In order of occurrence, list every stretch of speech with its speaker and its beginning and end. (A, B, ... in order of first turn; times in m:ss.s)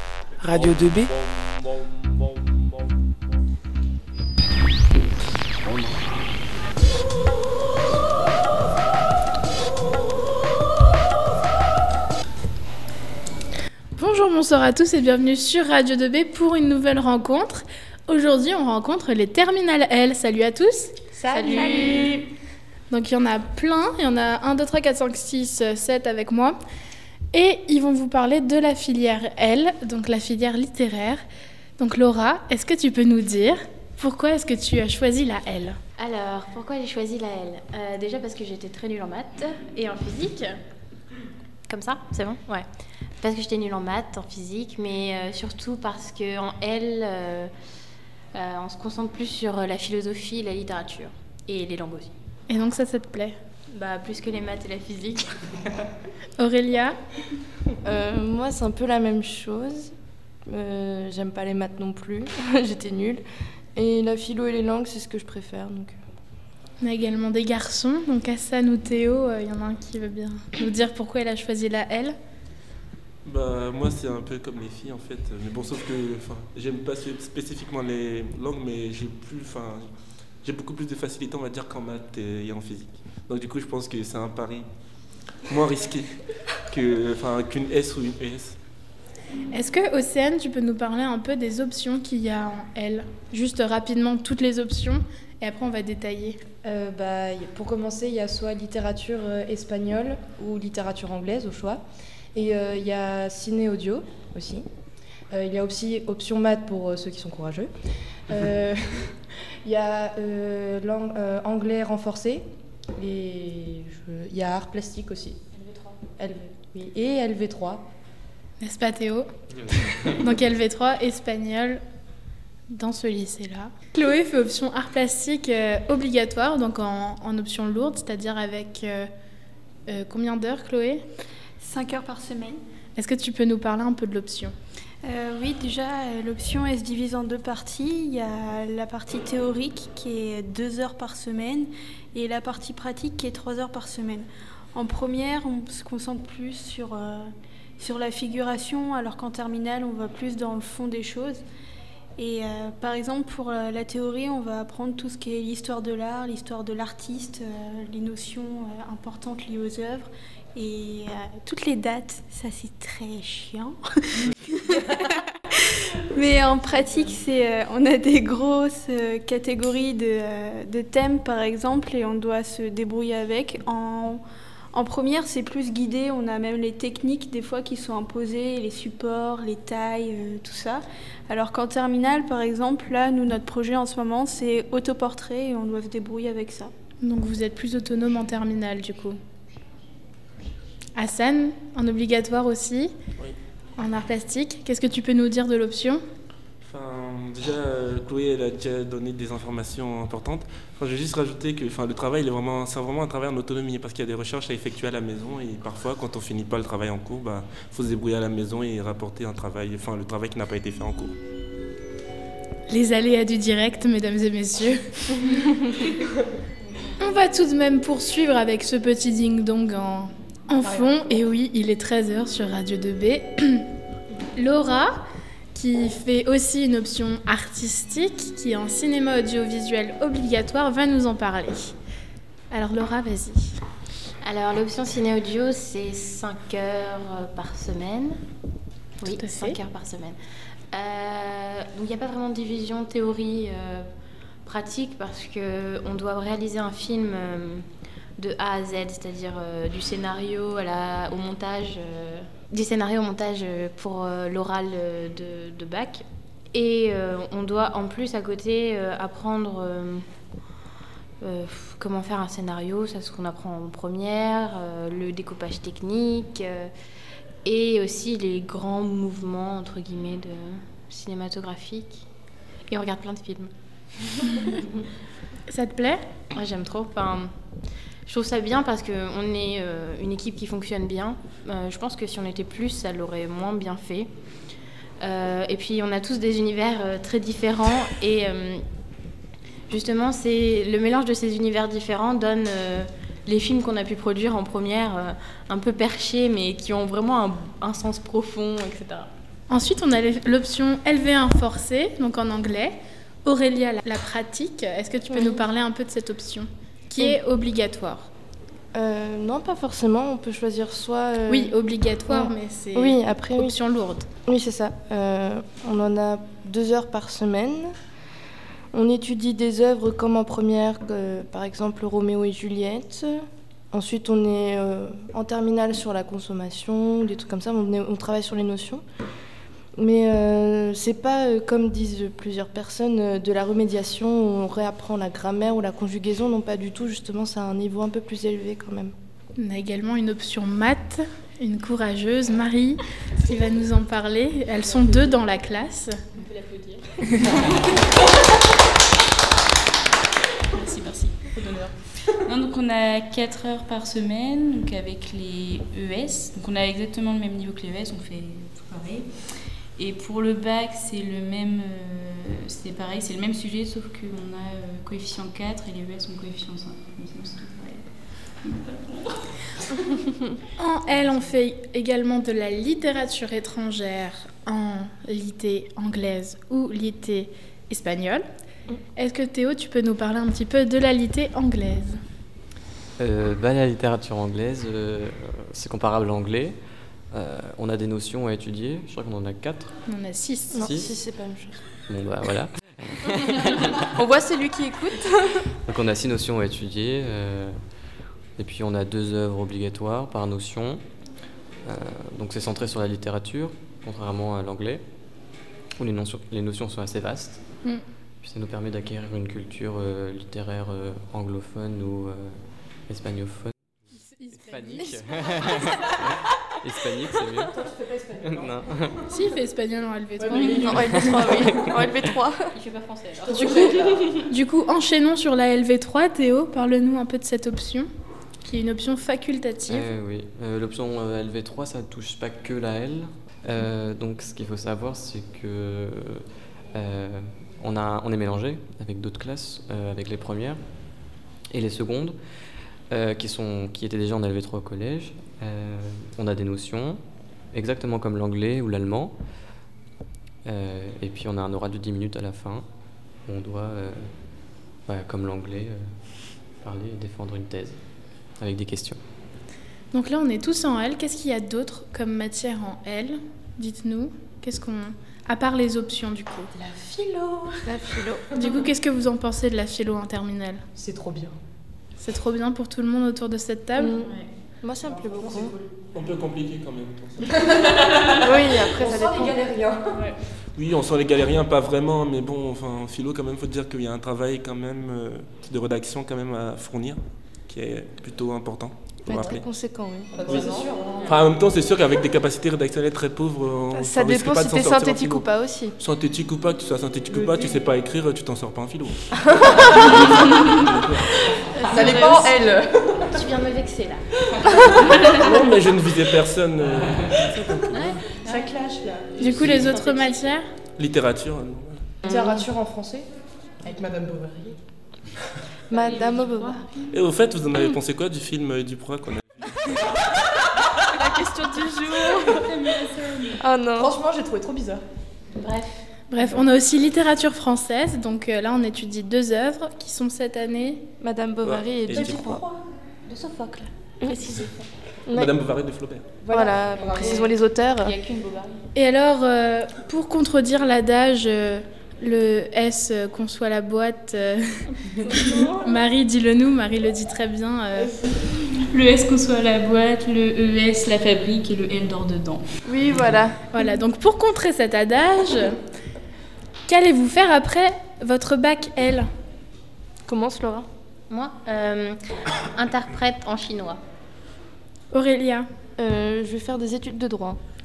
0:14.0-0:22.1 A
0:21.4-0:22.0 B
0:21.5-0:22.1 C
0:22.9-0:26.6 A
0:27.3-0:31.2 A
0:31.8-0:35.8 A
0:36.0-0:40.6 D
0:41.7-0:42.7 D
0:43.2-0:47.5 D
0:48.3-0:52.1 D
0:52.5-0:53.4 A
0:53.7-0:55.9 D
0:56.4-0:57.0 A
0:57.8-0:59.9 B
1:00.5-1:03.2 B
1:03.8-1:06.0 B
1:06.8-1:12.2 A
1:13.2-1:19.8 E
1:20.4-1:24.7 E
1:25.5-1:26.1 E
1:26.7-1:28.6 E
1:29.5-1:36.4 A
1:36.6-1:41.8 F
1:42.4-1:44.6 F
1:45.3-1:47.7 F
1:48.3-1:49.0 F
1:49.6-1:52.4 F
1:53.0-1:55.4 F
1:56.2-1:57.9 F
1:58.6-1:59.3 A
2:00.0-2:01.8 A
2:02.7-2:09.1 A
2:09.9-2:11.0 A
2:11.6-2:12.6 C
2:13.0-2:14.5 A
2:15.0-2:31.4 C
2:32.2-2:45.6 C
2:46.1-2:54.2 C
2:54.7-3:06.7 C
3:07.0-3:09.2 A
3:11.0-3:12.9 A
3:13.8-3:16.0 A
3:16.6-3:31.1 E
3:32.7-3:35.8 A
3:37.0-3:43.7 A
3:44.4-3:45.0 A
3:45.5-3:51.8 A
3:52.5-3:53.6 A
3:54.2-3:58.2 D
3:59.0-4:00.2 D
3:59.1-3:59.6 A
4:00.7-4:03.9 D
4:04.5-4:07.6 D
4:08.2-4:20.0 D
4:21.2-4:26.7 D
4:27.4-4:32.0 D
4:32.7-4:33.5 D
4:34.1-4:34.8 D
4:35.5-4:36.0 A
4:36.3-4:37.3 D
4:38.1-4:44.1 D
4:45.0-4:48.6 D
4:49.7-4:59.1 D
4:59.5-5:08.1 A
5:05.1-5:05.4 B
5:08.7-5:13.6 B
5:11.3-5:14.1 A
5:14.3-5:17.7 B
5:18.7-5:23.2 B
5:23.7-5:28.8 B
5:29.8-5:38.9 B
5:39.4-5:46.0 A
5:50.6-5:51.2 G
5:52.2-5:59.1 G
5:59.8-6:07.8 G
6:08.4-6:09.2 G
6:10.6-6:18.2 A
6:19.0-6:22.0 A
6:23.0-6:26.6 H
6:27.1-6:29.8 H
6:29.9-6:30.8 A
6:30.5-6:31.6 B
6:30.6-6:31.0 H
6:31.9-6:33.9 H
6:34.0-6:35.4 B
6:35.7-6:37.6 H
6:38.4-6:40.8 H
6:41.7-6:44.8 H
6:45.8-6:47.4 H
6:48.2-6:52.3 H
6:52.9-6:53.5 H
6:53.9-6:55.6 A
6:54.4-6:59.0 H
6:58.0-6:58.5 F
6:59.1-7:01.3 A
7:00.3-7:00.7 F
7:00.4-7:02.5 B
7:00.8-7:01.7 H
7:02.5-7:04.2 D
7:03.4-7:07.9 A
7:08.4-7:09.9 A
7:09.7-7:16.2 H
7:16.7-7:20.6 H
7:21.5-7:22.2 H
7:22.9-7:27.0 H
7:27.5-7:29.2 H
7:30.5-7:32.7 H
7:33.3-7:34.1 H
7:34.9-7:35.8 H
7:36.6-7:37.8 H
7:38.4-7:39.0 H
7:39.9-7:46.5 A
7:47.7-7:48.2 B
7:48.3-7:50.6 A
7:52.0-7:54.0 A
7:53.8-7:55.6 B
7:55.1-7:55.5 F
7:55.9-7:57.5 E
7:58.2-7:59.5 B
7:58.8-7:59.8 F
7:59.9-8:00.2 G
8:00.6-8:09.5 E
8:09.1-8:10.6 B
8:10.2-8:21.2 E
8:10.3-8:11.1 F
8:13.7-8:15.8 B
8:19.4-8:20.4 B
8:21.3-8:22.6 B
8:21.7-8:23.0 F
8:23.1-8:24.0 D
8:25.1-8:28.2 E
8:27.7-8:28.5 D
8:28.3-8:28.9 F
8:29.2-8:30.3 D
8:29.2-8:30.5 A
8:29.4-8:29.7 E
8:30.8-8:31.9 E
8:32.1-8:33.1 F
8:33.6-8:34.5 F
8:35.7-8:36.7 B
8:35.7-8:36.8 G
8:36.9-8:39.8 E
8:40.9-8:42.5 B
8:42.7-8:43.3 G
8:43.4-8:44.0 B
8:43.8-8:44.8 F
8:45.3-8:45.9 D
8:46.1-8:50.9 A
8:51.0-8:52.4 B
8:51.4-8:52.3 E
8:52.0-8:52.4 F
8:53.1-8:54.5 G
8:54.0-8:54.4 B
8:55.1-8:55.3 B
8:55.1-8:56.3 E
8:56.3-8:57.1 F
8:56.3-8:58.0 B
8:56.7-8:58.6 G
8:58.7-9:04.7 A
9:05.1-9:05.7 B
9:05.5-9:07.9 A
9:08.7-9:12.4 G
9:12.6-9:13.4 B
9:13.5-9:15.6 A
9:16.7-9:19.1 A
9:20.1-9:20.7 B
9:21.1-9:23.8 D
9:24.9-9:25.5 A
9:25.8-9:27.4 B